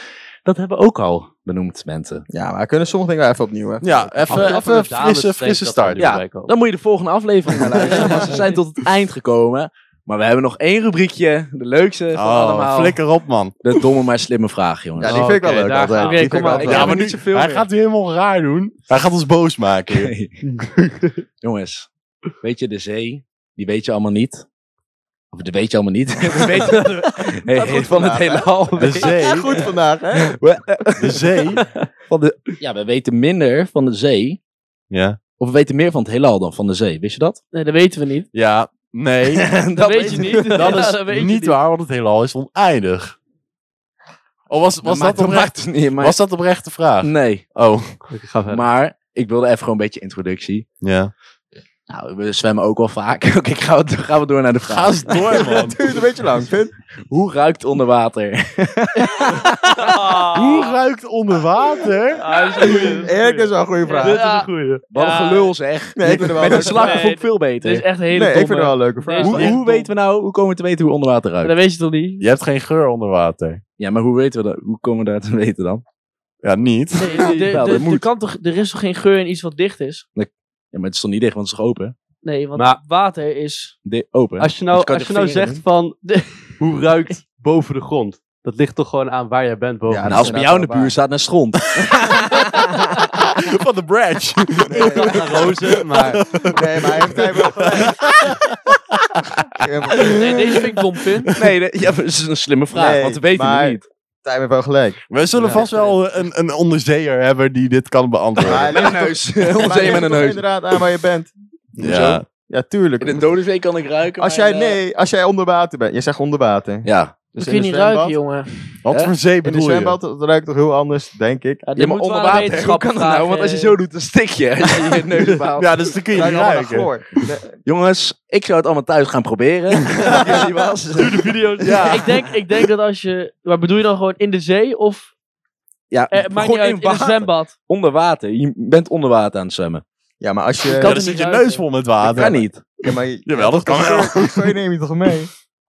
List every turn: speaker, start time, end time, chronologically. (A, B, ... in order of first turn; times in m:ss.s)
0:00.4-0:02.3 A
0:02.3-0:04.7 B
0:03.8-0:06.1 C
0:04.3-0:06.5 D
0:06.0-0:13.0 A
0:07.8-0:08.2 C
0:12.1-0:13.6 C
0:13.6-0:17.7 A
0:15.0-0:17.0 B
0:16.0-0:17.0 E
0:16.6-0:21.0 C
0:19.9-0:20.4 A
0:20.4-0:21.1 D
0:21.4-0:21.9 A
0:22.4-0:24.4 A
0:25.3-0:29.3 A
0:27.5-0:30.4 B
0:28.8-0:29.7 C
0:30.1-0:34.4 A
0:31.0-0:31.6 C
0:34.9-0:35.2 C
0:35.4-0:37.4 A
0:37.5-0:38.3 E
0:38.3-0:39.6 C
0:39.3-0:40.8 A
0:39.7-0:41.6 E
0:40.5-0:43.2 C
0:44.5-0:48.0 C
0:44.8-0:46.2 A
0:47.0-0:47.4 A
0:48.1-0:48.7 D
0:48.5-0:50.6 A
0:50.8-0:51.1 C
0:51.9-0:55.3 A
0:54.6-0:55.8 C
0:55.3-0:56.7 B
0:57.1-0:59.9 A
0:59.8-1:00.7 D
1:00.2-1:02.3 C
1:00.4-1:00.6 E
1:02.2-1:04.8 D
1:02.3-1:03.1 E
1:02.6-1:04.2 B
1:03.9-1:05.5 E
1:04.9-1:07.9 A
1:06.0-1:07.1 B
1:06.3-1:09.8 E
1:08.1-1:09.6 B
1:09.2-1:11.5 A
1:11.4-1:12.2 E
1:12.2-1:13.6 C
1:13.8-1:15.8 A
1:16.4-1:17.4 C
1:17.0-1:20.0 E
1:17.0-1:17.8 D
1:17.3-1:18.1 A
1:20.2-1:21.9 A
1:22.2-1:23.7 E
1:22.5-1:22.8 D
1:23.8-1:25.6 A
1:24.4-1:30.4 D
1:26.0-1:26.4 E
1:29.9-1:30.9 B
1:30.0-1:33.0 A
1:33.2-1:41.3 C
1:34.7-1:38.3 B
1:34.8-1:36.2 D
1:39.5-1:40.7 B
1:40.0-1:41.3 E
1:41.3-1:43.8 A
1:42.7-1:45.0 B
1:45.1-1:48.8 C
1:45.4-1:45.9 D
1:48.4-1:51.3 B
1:48.5-1:50.5 A
1:51.8-1:52.2 A
1:51.8-1:52.3 C
1:52.5-1:53.2 B
1:53.0-1:54.8 A
1:54.2-1:58.2 B
1:56.8-1:57.1 A
1:57.4-1:58.5 E
1:58.8-2:00.0 C
1:59.4-2:01.6 B
2:01.6-2:03.8 E
2:01.8-2:05.7 A
2:04.7-2:05.0 E
2:05.5-2:07.0 C
2:06.1-2:07.5 B
2:07.6-2:11.4 A
2:11.0-2:15.1 E
2:11.6-2:12.2 C
2:15.9-2:19.8 A
2:16.1-2:17.5 E
2:20.2-2:21.0 B
2:20.7-2:24.6 C
2:20.7-2:21.6 E
2:22.0-2:22.6 A
2:22.8-2:25.3 B